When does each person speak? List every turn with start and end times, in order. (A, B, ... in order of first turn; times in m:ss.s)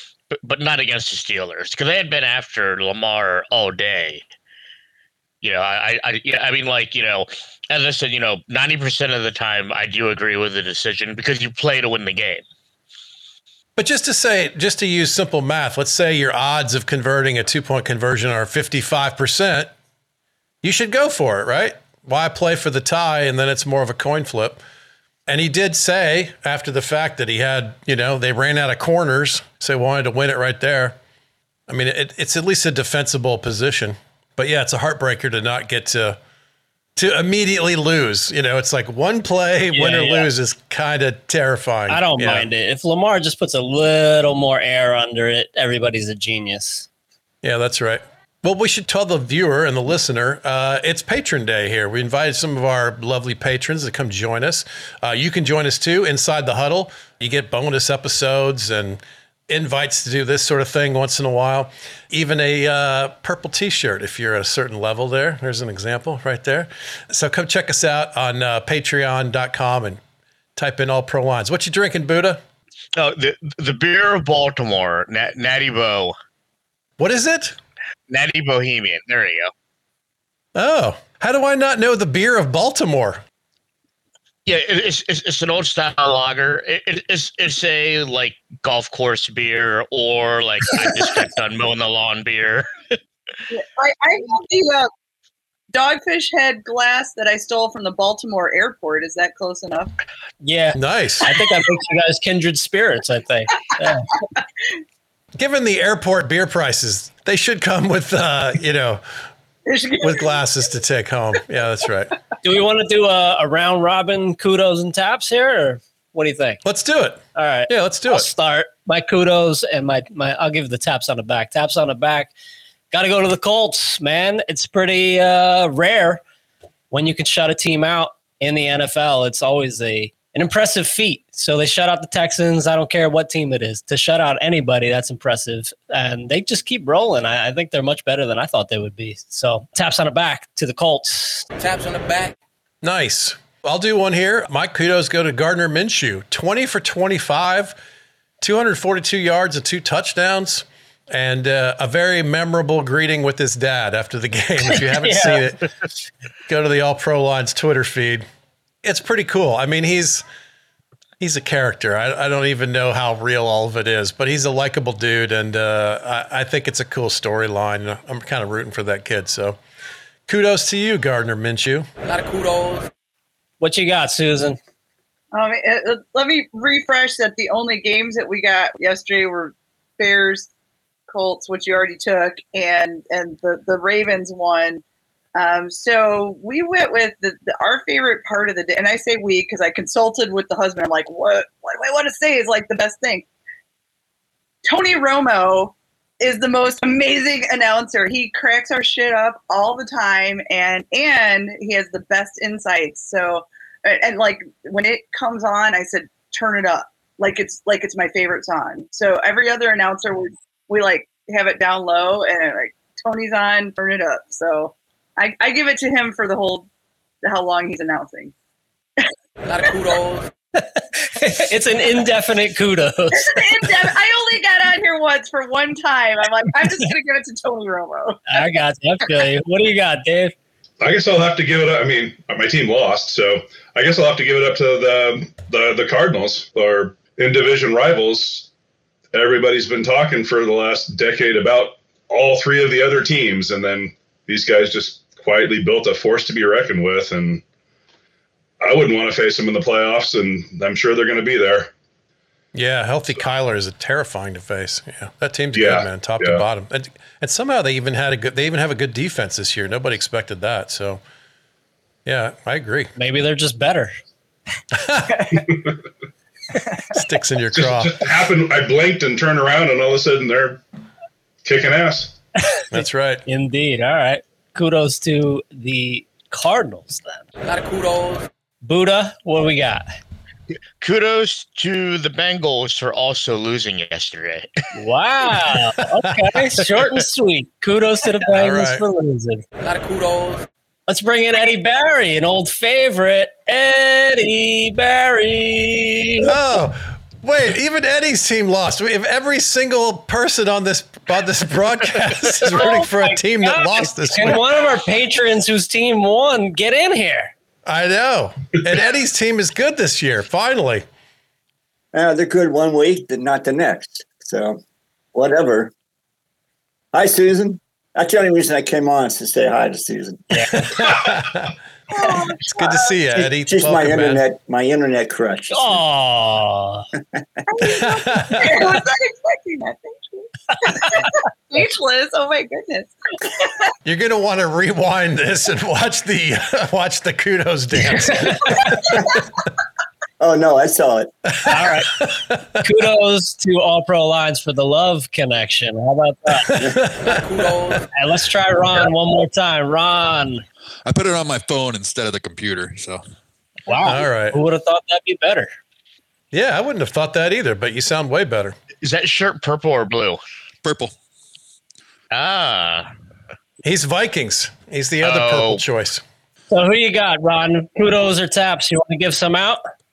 0:00.4-0:04.2 A
0:05.4-0:12.4 A
0:13.8-0:19.7 B
0:20.6-0:24.6 B
0:25.3-0:31.0 B
0:31.7-0:36.2 B
0:37.0-0:42.5 B
0:39.7-0:40.3 C
0:41.9-0:46.9 C
0:47.4-1:10.0 B
1:10.6-1:12.4 B
1:13.0-1:16.2 A
1:17.0-1:17.6 B
1:18.1-1:19.5 A
1:20.6-1:23.2 B
1:24.5-1:33.0 A
1:33.5-1:34.9 D
1:35.7-1:39.9 D
1:40.4-1:44.1 C
1:40.8-1:41.3 B
1:45.4-1:49.0 B
1:49.7-1:50.4 D
1:50.0-1:52.1 B
1:52.4-1:56.6 C
1:56.6-1:58.3 B
1:57.4-2:02.3 C
2:02.9-2:06.2 C
2:06.9-2:21.5 C
2:21.6-2:22.3 E
2:22.8-2:27.8 B
2:28.4-2:35.6 B
2:34.7-2:35.4 C
2:36.5-2:38.3 B
2:38.8-2:40.2 B
2:41.2-2:49.6 B
2:50.3-2:51.9 B
2:52.0-2:52.9 E
2:53.6-2:54.6 C
2:55.3-3:00.5 D
3:01.1-3:04.8 D
3:05.4-3:13.3 D
3:14.6-3:36.7 D
3:37.2-3:38.3 D
3:39.4-3:40.3 E
3:40.6-3:43.7 C
3:43.1-3:48.2 D
3:48.3-3:50.4 C
3:50.8-3:58.5 F
3:59.1-4:07.4 F
4:08.6-4:11.7 F
4:12.5-4:21.0 B
4:15.5-4:16.4 F
4:22.0-4:22.9 B
4:23.0-4:23.9 C
4:24.7-4:25.3 B
4:25.4-4:25.8 F
4:26.9-4:28.0 B
4:27.5-4:30.6 F
4:31.4-4:32.1 F
4:32.7-4:33.2 B
4:33.3-4:37.3 C
4:37.4-4:38.3 E
4:38.6-4:39.8 C
4:40.8-4:44.5 A
4:44.7-4:49.4 C
4:48.3-4:48.8 B
4:49.6-4:50.4 E
4:50.9-4:56.3 C
4:56.2-5:04.5 B
5:02.5-5:07.3 C
5:07.7-5:10.9 B
5:11.9-5:14.6 G
5:15.1-5:15.7 G
5:16.9-5:20.3 G
5:20.3-5:20.6 C
5:20.5-5:21.5 B
5:21.9-5:22.9 D
5:22.5-5:24.2 B
5:23.4-5:25.8 G
5:25.5-5:26.9 C
5:27.5-5:33.6 D
5:27.6-5:28.8 B
5:33.8-5:38.7 B
5:38.1-5:38.6 C
5:40.2-5:41.1 G
5:41.4-5:42.6 B
5:41.5-5:42.0 C
5:42.6-5:46.6 C
5:46.3-5:47.3 B
5:47.0-5:47.9 E
5:47.9-5:50.4 C
5:50.8-5:53.0 H
5:53.7-5:55.5 C
5:53.8-5:54.4 B
5:56.3-5:58.6 B
5:58.8-6:00.2 A
6:00.6-6:00.9 H
6:02.1-6:02.9 A
6:03.6-6:06.0 B
6:05.0-6:05.6 A
6:06.5-6:09.6 C